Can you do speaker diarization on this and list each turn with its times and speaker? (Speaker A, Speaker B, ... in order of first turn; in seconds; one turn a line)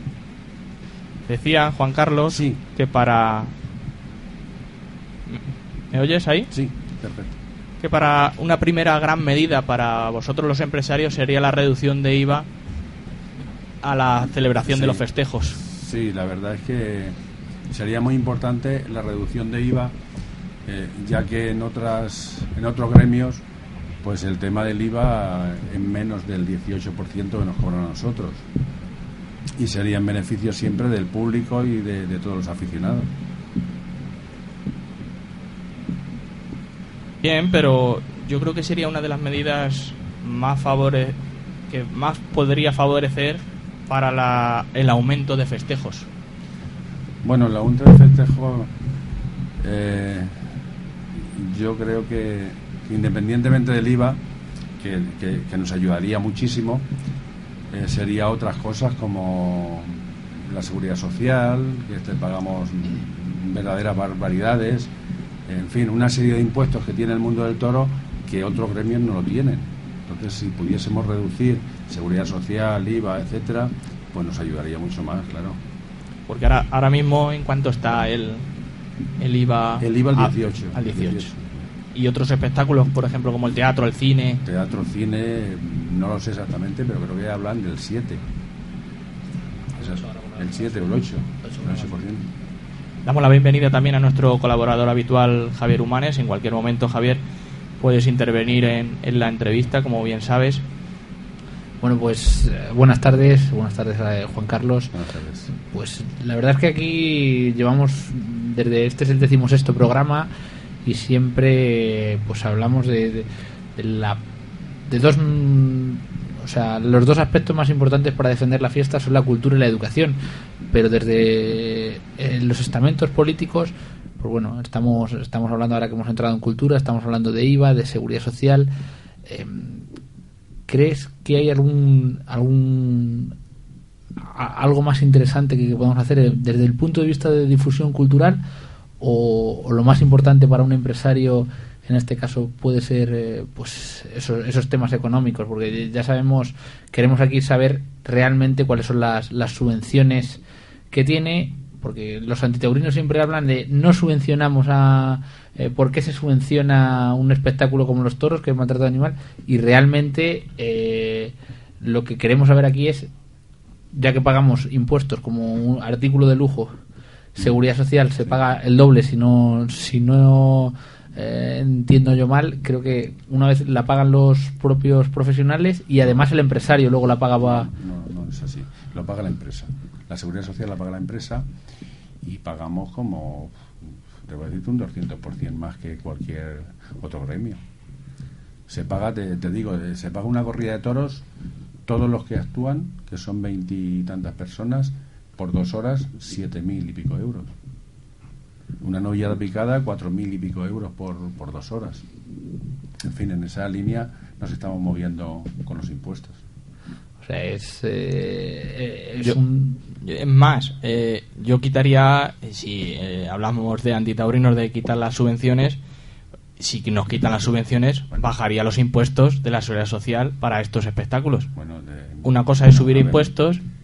Speaker A: 1.3-3.5
Speaker B: 2.3-2.6
Speaker A: 5.3-6.5
Speaker B: 6.5-7.3
Speaker A: 7.8-12.5
Speaker A: 13.8-15.6
Speaker B: 14.6-15.1
Speaker B: 15.6-20.0
Speaker B: 20.6-23.4
Speaker B: 24.0-28.4
Speaker B: 29.6-33.1
Speaker A: 37.2-41.2
Speaker A: 41.7-46.1
Speaker B: 47.2-48.7
Speaker B: 49.6-50.5
Speaker B: 51.1-54.2
Speaker B: 54.8-56.9
Speaker B: 57.7-64.9
Speaker B: 65.5-75.6
Speaker A: 76.3-78.5
Speaker A: 79.2-81.3
Speaker B: 79.8-81.7
Speaker A: 81.9-84.4
Speaker B: 84.4-88.2
Speaker B: 89.7-92.3
Speaker C: 89.8-90.9
Speaker C: 91.4-91.9
Speaker A: 93.0-97.2
Speaker A: 97.8-100.6
Speaker C: 101.8-104.9
Speaker B: 104.9-105.5
Speaker C: 105.5-110.3
Speaker C: 110.8-114.2
Speaker C: 114.8-120.2
Speaker C: 120.7-128.7
Speaker C: 129.2-129.9
Speaker C: 130.7-133.4
Speaker C: 134.2-138.4
Speaker C: 139.0-163.1
Speaker C: 163.9-166.8
Speaker C: 167.3-177.7
Speaker B: 177.4-181.5
Speaker B: 182.2-183.6
Speaker B: 184.2-187.6
Speaker B: 188.7-191.2
Speaker B: 191.9-197.5
Speaker B: 198.8-202.0
Speaker B: 203.0-206.4
Speaker C: 207.2-209.8
Speaker A: 210.0-215.8
Speaker A: 216.6-221.5
Speaker B: 221.5-223.4
Speaker A: 222.2-223.6